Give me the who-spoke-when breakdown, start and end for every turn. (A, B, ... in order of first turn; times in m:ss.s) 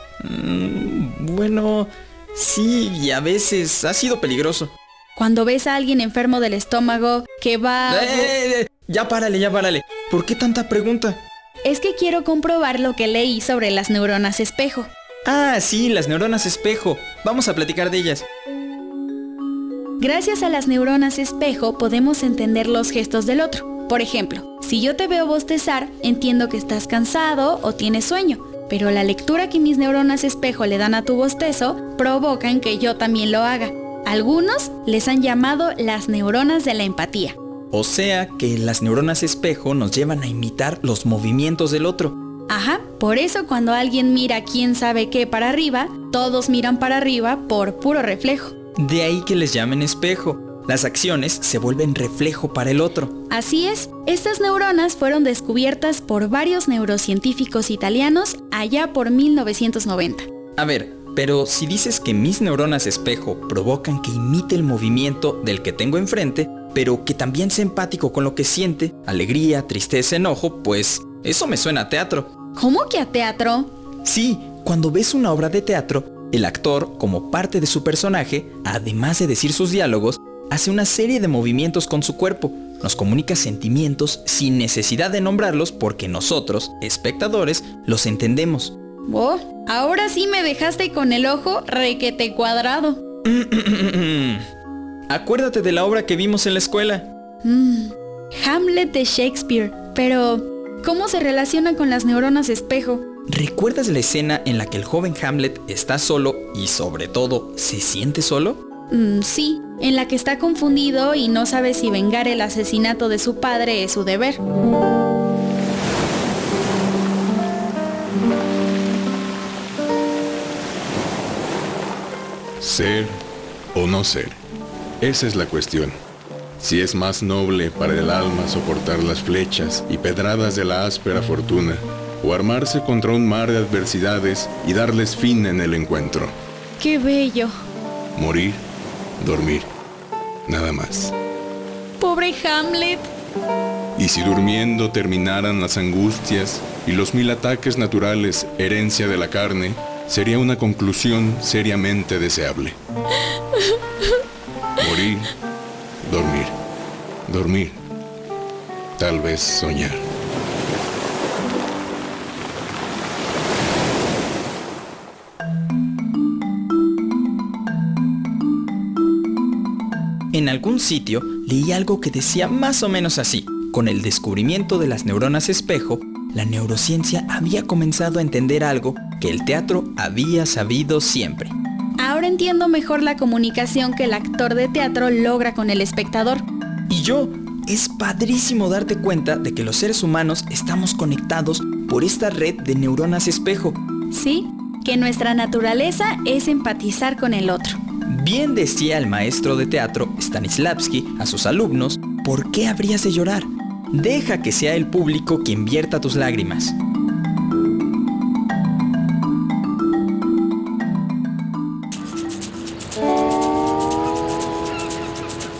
0:00.2-0:04.7 A
0:05.2-0:08.3 B
0:07.9-0:11.2 A
0:11.6-0:14.9 B
0:15.2-0:18.2 A
0:20.0-0:37.4 B
0:37.7-0:42.1 A
0:42.5-0:48.5 B
0:48.8-0:53.1 A
0:53.3-1:00.2 B
1:00.6-1:12.3 A
1:12.6-1:13.7 B
1:14.0-1:28.7 A
1:29.1-1:33.0 B
1:33.2-1:34.4 A
1:35.1-1:37.1 A
1:37.4-1:43.0 B
1:43.3-1:48.6 A
1:48.9-1:54.4 B
2:02.6-2:03.2 C
2:03.7-2:04.4 C
2:05.0-2:06.0 C
2:06.6-2:16.3 C
2:16.8-2:17.5 B
2:18.2-2:18.6 C
2:19.2-2:19.7 C
2:20.5-2:21.1 C
2:22.0-2:23.1 B
2:24.0-2:32.8 C
2:34.8-2:35.3 C
2:36.0-2:36.5 C
2:37.3-2:37.8 C
2:39.0-2:40.0 C
2:50.3-3:01.5 A
3:02.0-3:06.4 B
3:06.9-3:13.8 A
3:14.1-3:17.8 B
3:18.0-3:26.7 A